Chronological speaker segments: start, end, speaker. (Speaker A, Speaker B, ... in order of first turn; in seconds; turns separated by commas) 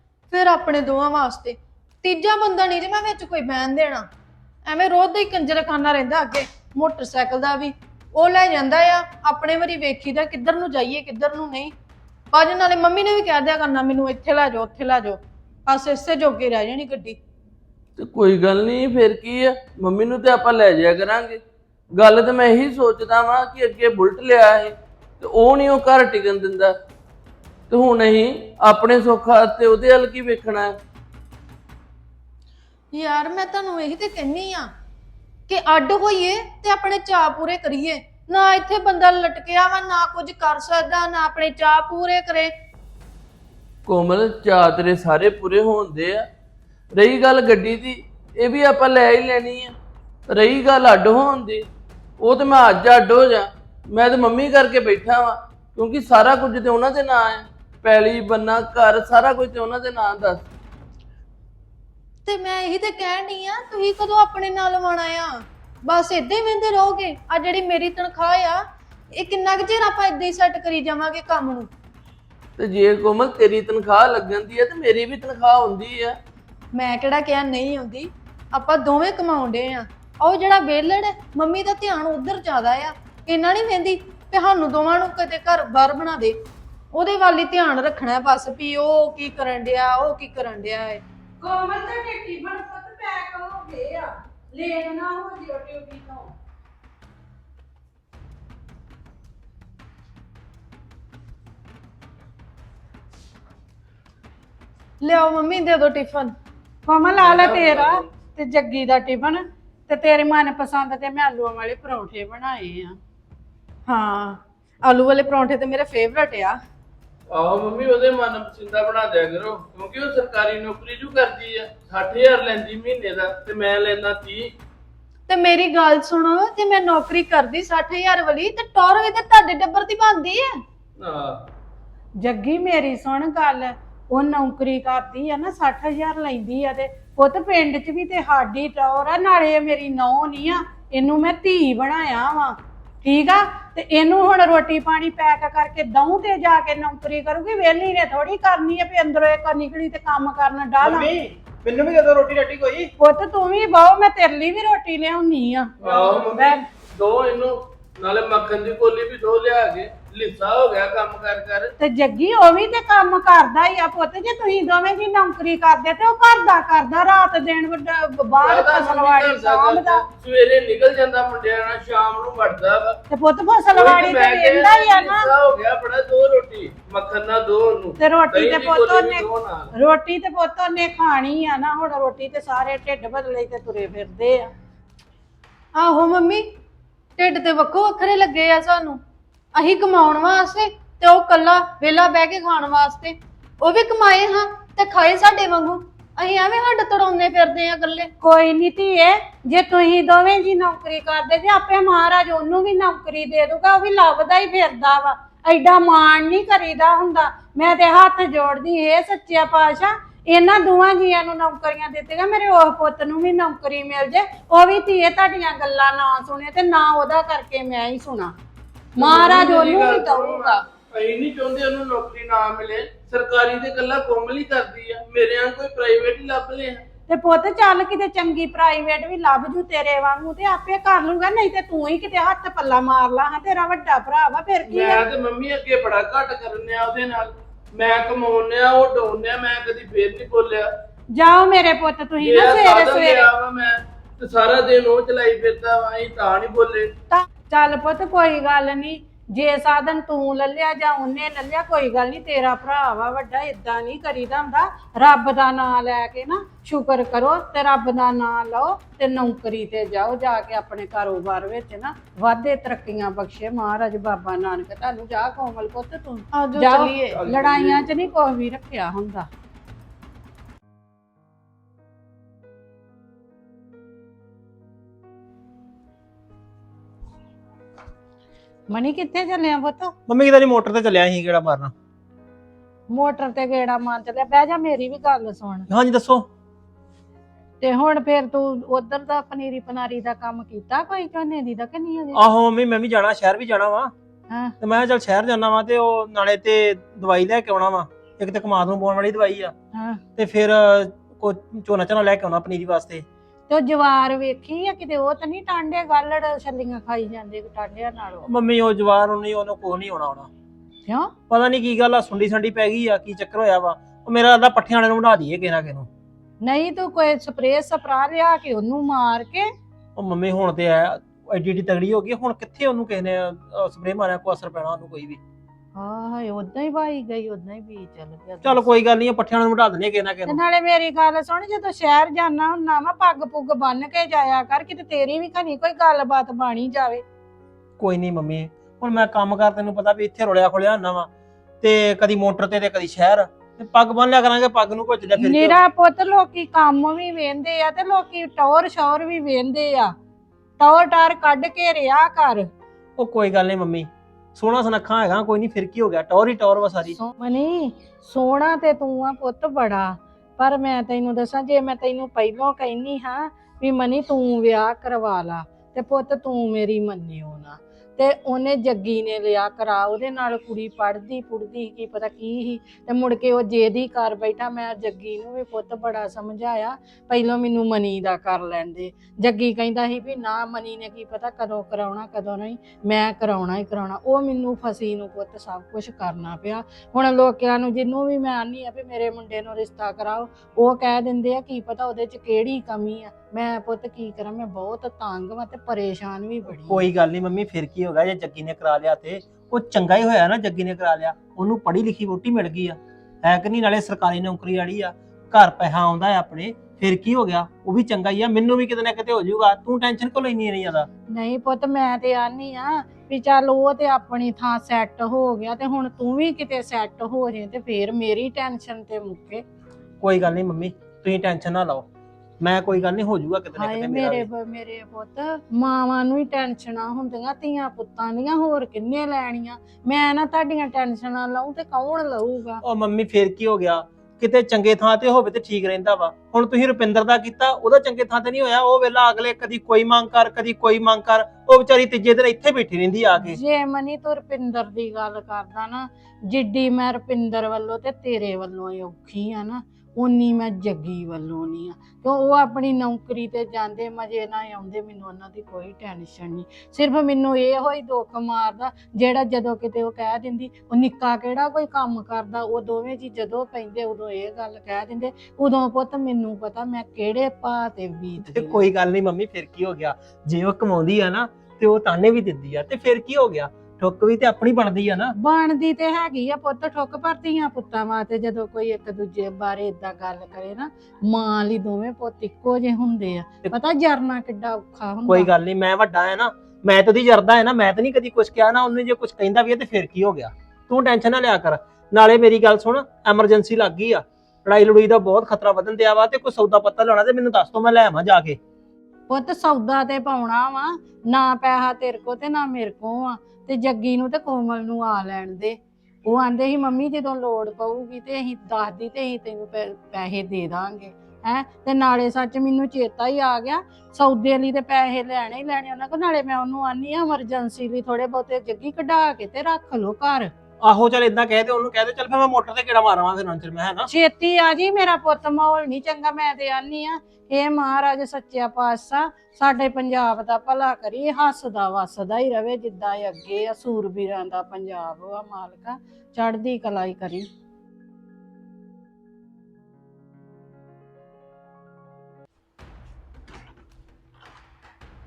Speaker A: 0.3-4.1, Speaker A: 4.7-11.7, Speaker A: 12.3-17.2, Speaker B: 18.0-21.4, Speaker B: 21.9-26.7, Speaker B: 27.7-30.8, Speaker A: 32.9-34.7, Speaker A: 35.5-42.5, Speaker B: 43.9-46.2, Speaker B: 46.9-49.7, Speaker B: 50.3-51.7, Speaker B: 52.2-60.5, Speaker A: 62.2-68.6, Speaker A: 69.2-71.7, Speaker B: 72.6-76.2, Speaker A: 76.7-86.4, Speaker A: 86.9-91.0, Speaker C: 91.4-96.3, Speaker A: 105.0-106.3, Speaker C: 106.9-113.0, Speaker B: 107.2-108.0, Speaker A: 113.9-116.6, Speaker B: 117.3-124.5, Speaker A: 125.3-130.6, Speaker B: 131.0-131.4, Speaker C: 132.2-151.1, Speaker D: 150.8-152.9, Speaker C: 153.0-156.7, Speaker B: 155.8-161.7, Speaker C: 161.8-170.0, Speaker B: 168.4-173.0, Speaker C: 173.1-175.3, Speaker B: 173.7-179.7, Speaker C: 178.0-184.5, Speaker A: 185.8-186.4, Speaker A: 187.2-189.0, Speaker A: 189.5-198.1, Speaker C: 198.2-218.3, Speaker B: 219.0-226.8, Speaker C: 219.0-220.6, Speaker C: 227.1-235.1, Speaker B: 234.7-240.7, Speaker C: 241.1-243.3, Speaker B: 242.2-246.9, Speaker C: 247.1-269.3, Speaker A: 266.3-267.2, Speaker B: 267.2-268.0, Speaker C: 278.7-279.9, Speaker D: 280.1-281.7, Speaker C: 282.9-285.7, Speaker D: 285.7-286.3, Speaker C: 287.6-292.2, Speaker D: 292.1-293.9, Speaker D: 294.6-299.5, Speaker C: 299.7-300.0, Speaker D: 300.2-303.1, Speaker C: 303.5-308.3, Speaker D: 308.3-310.3, Speaker C: 310.9-311.1, Speaker D: 311.3-315.9, Speaker C: 316.4-319.5, Speaker D: 320.0-325.2, Speaker C: 325.8-328.8, Speaker D: 328.4-330.4, Speaker C: 330.3-337.0, Speaker D: 337.8-341.1, Speaker D: 341.6-345.6, Speaker C: 345.2-349.9, Speaker C: 350.6-352.5, Speaker D: 353.0-357.0, Speaker C: 357.0-396.9, Speaker D: 396.5-410.9, Speaker C: 411.1-419.4, Speaker D: 420.0-421.9, Speaker D: 422.4-424.3, Speaker C: 423.6-432.6, Speaker D: 432.6-443.4, Speaker C: 443.2-468.6, Speaker D: 468.2-475.1, Speaker C: 475.2-485.3, Speaker D: 485.1-498.4, Speaker C: 499.1-520.3, Speaker D: 520.6-523.9, Speaker C: 523.9-537.3